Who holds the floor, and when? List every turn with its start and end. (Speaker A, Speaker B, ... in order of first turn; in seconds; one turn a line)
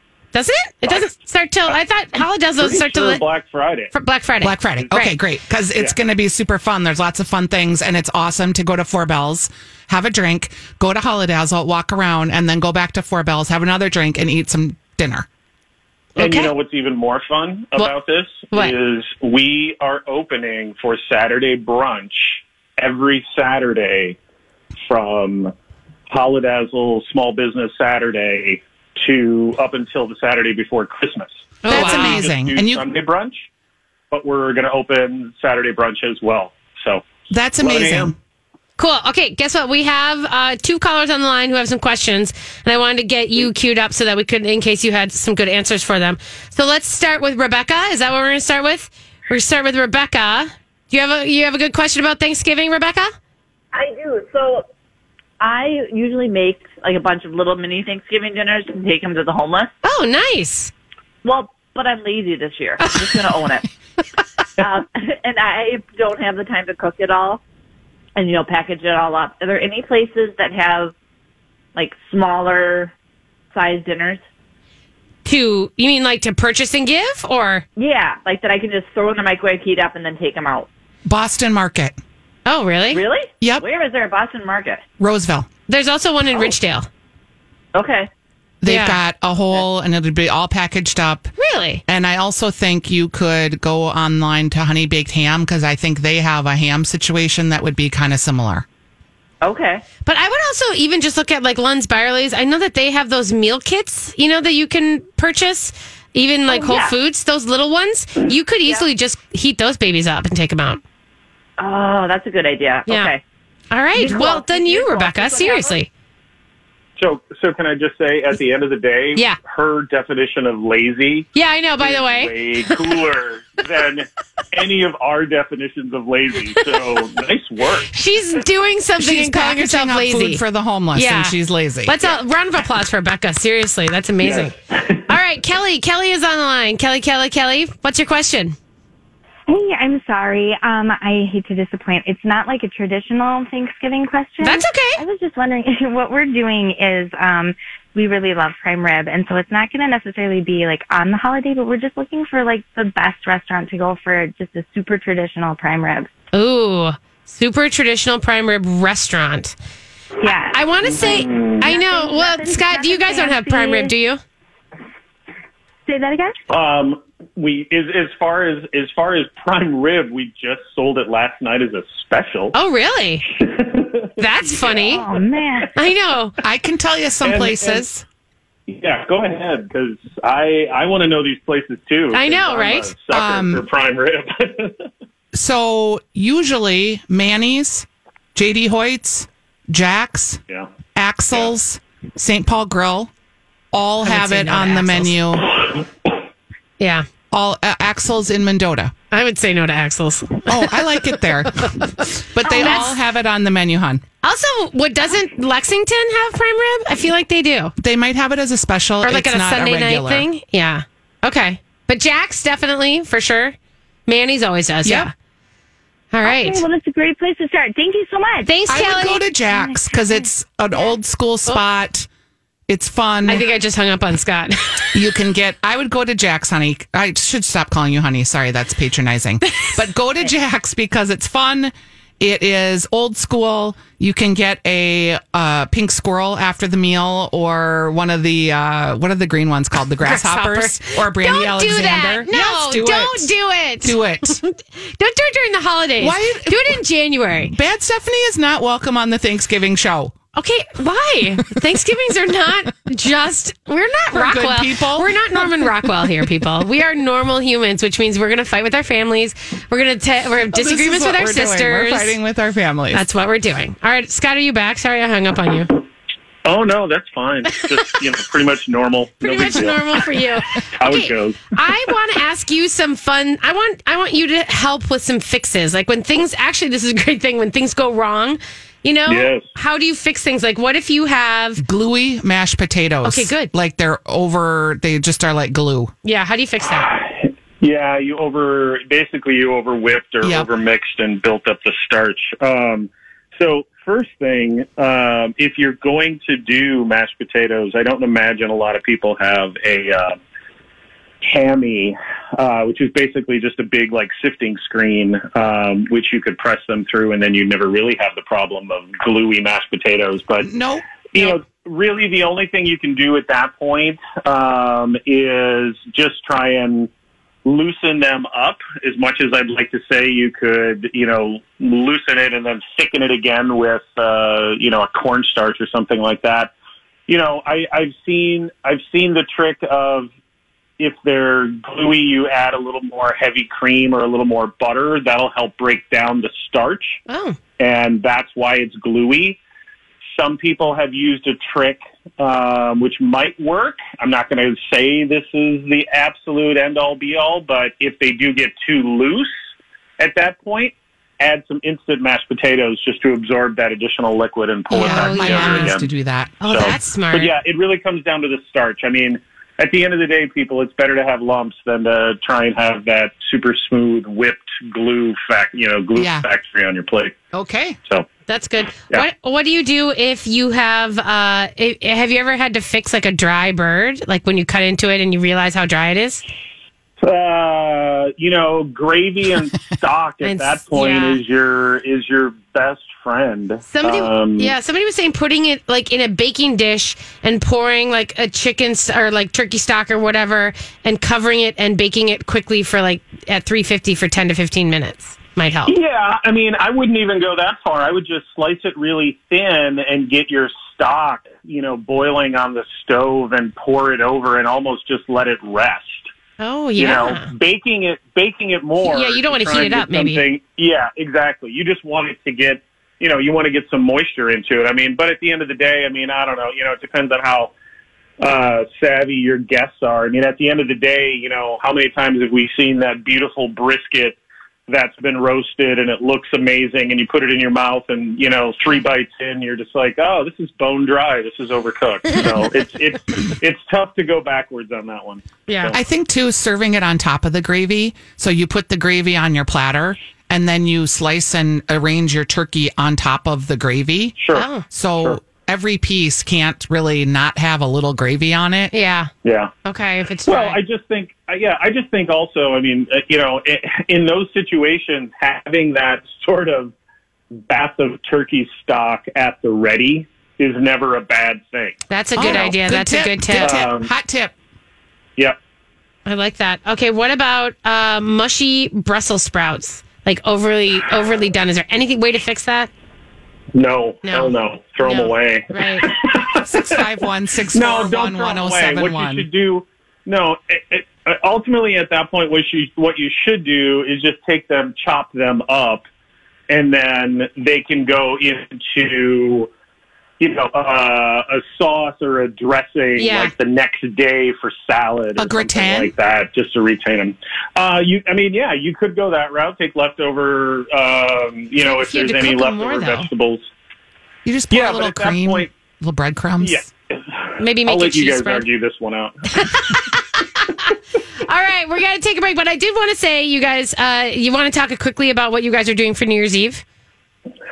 Speaker A: 0.3-3.2
Speaker B: 0.9-1.1
Speaker B: 2.6-3.9
Speaker A: 3.9-5.1
Speaker C: 4.4-15.3
Speaker A: 16.2-16.5
Speaker B: 16.2-24.2
Speaker B: 24.9-25.5
Speaker B: 26.1-33.5
Speaker A: 31.6-32.2
Speaker C: 31.7-32.9
Speaker B: 34.1-37.1
Speaker C: 37.3-38.2
Speaker B: 37.6-38.1
Speaker A: 38.8-53.1
Speaker D: 53.7-54.7
Speaker D: 55.4-59.7
Speaker A: 59.8-60.7
Speaker D: 61.2-63.7
Speaker D: 64.6-67.4
Speaker D: 68.2-70.9
Speaker D: 71.8-72.9
Speaker D: 73.5-74.2
Speaker A: 75.2-77.7
Speaker D: 77.8-80.7
Speaker C: 81.1-82.0
Speaker A: 82.5-83.0
Speaker D: 82.9-84.8
Speaker C: 85.0-85.5
Speaker A: 85.7-86.9
Speaker D: 87.7-88.1
Speaker C: 88.6-91.3
Speaker A: 88.7-89.0
Speaker A: 91.4-91.8
Speaker C: 91.9-98.7
Speaker D: 99.4-99.8
Speaker A: 100.1-110.8
Speaker D: 106.5-106.9
Speaker D: 111.6-113.2
Speaker A: 112.9-113.1
Speaker A: 113.7-115.9
Speaker D: 114.0-115.8
Speaker B: 117.0-127.9
Speaker A: 121.3-122.8
Speaker A: 127.9-130.4
Speaker C: 129.0-132.1
Speaker A: 130.9-134.6
Speaker B: 134.2-135.1
Speaker A: 135.1-138.6
Speaker E: 139.5-156.1
Speaker A: 144.4-145.0
Speaker A: 156.3-159.6
Speaker E: 160.2-163.9
Speaker A: 160.5-164.2
Speaker B: 161.0-161.6
Speaker E: 165.9-166.4
Speaker B: 166.5-172.6
Speaker A: 172.5-173.3
Speaker B: 173.4-175.4
Speaker A: 174.2-175.1
Speaker E: 174.8-175.7
Speaker A: 175.8-176.3
Speaker C: 176.4-178.1
Speaker B: 177.2-177.8
Speaker B: 178.7-184.9
Speaker A: 182.1-182.9
Speaker C: 183.1-183.7
Speaker C: 185.3-190.4
Speaker C: 190.9-193.1
Speaker C: 193.7-195.6
Speaker A: 194.0-195.2
Speaker A: 196.8-197.1
Speaker C: 197.3-198.9
Speaker A: 199.1-201.1
Speaker C: 200.5-204.0
Speaker A: 202.4-202.9
Speaker A: 204.2-207.7
Speaker C: 207.8-210.3
Speaker A: 209.0-213.6
Speaker A: 214.1-215.1
Speaker C: 214.8-215.1
Speaker A: 216.1-216.6
Speaker E: 216.2-218.6
Speaker A: 218.4-219.2
Speaker C: 218.7-222.1
Speaker E: 219.5-220.2
Speaker C: 222.7-223.4
Speaker A: 223.3-224.9
Speaker C: 224.9-244.4
Speaker A: 229.5-229.8
Speaker A: 240.0-247.5
Speaker C: 246.0-246.8
Speaker C: 247.5-250.2
Speaker A: 250.3-262.1
Speaker C: 254.1-256.2
Speaker C: 260.5-263.1
Speaker A: 262.9-265.8
Speaker B: 266.4-270.1
Speaker A: 269.2-281.6
Speaker B: 270.8-271.5
Speaker B: 279.1-279.5
Speaker C: 281.6-285.9
Speaker A: 283.0-283.5
Speaker A: 286.0-286.9
Speaker B: 286.8-300.2
Speaker C: 290.2-290.5
Speaker B: 301.2-310.5
Speaker C: 310.4-311.4
Speaker B: 311.1-316.9
Speaker B: 317.4-326.5
Speaker B: 327.1-330.1
Speaker B: 330.8-337.0
Speaker A: 337.1-337.4
Speaker B: 337.6-339.4
Speaker B: 340.1-349.3
Speaker B: 350.0-355.9
Speaker A: 354.7-355.8
Speaker C: 354.7-356.8
Speaker A: 356.4-357.3
Speaker B: 356.5-367.2
Speaker C: 365.9-366.3
Speaker C: 367.3-367.8
Speaker A: 368.3-376.2
Speaker B: 377.0-384.5
Speaker A: 380.2-381.2
Speaker A: 383.7-395.8
Speaker B: 395.7-406.1
Speaker A: 406.4-407.3
Speaker B: 406.8-417.5
Speaker A: 408.8-410.2
Speaker B: 418.2-435.8
Speaker A: 435.5-435.7
Speaker C: 435.7-448.7
Speaker B: 444.2-444.5
Speaker A: 444.3-444.6
Speaker A: 448.7-449.1
Speaker B: 449.2-449.5
Speaker A: 449.6-450.6
Speaker B: 450.3-456.7
Speaker B: 457.4-462.5
Speaker A: 461.9-463.6
Speaker C: 462.2-464.3
Speaker B: 463.4-463.9
Speaker A: 466.1-472.7
Speaker B: 473.5-476.8
Speaker A: 474.1-475.9
Speaker C: 476.4-479.3
Speaker B: 477.5-485.9
Speaker B: 486.5-489.5
Speaker B: 490.2-503.5
Speaker A: 493.0-493.3
Speaker C: 495.2-495.9
Speaker A: 501.6-503.1
Speaker C: 504.2-506.7
Speaker B: 504.5-505.5
Speaker B: 506.4-509.2
Speaker A: 507.4-508.5
Speaker A: 509.3-510.0
Speaker A: 511.2-516.6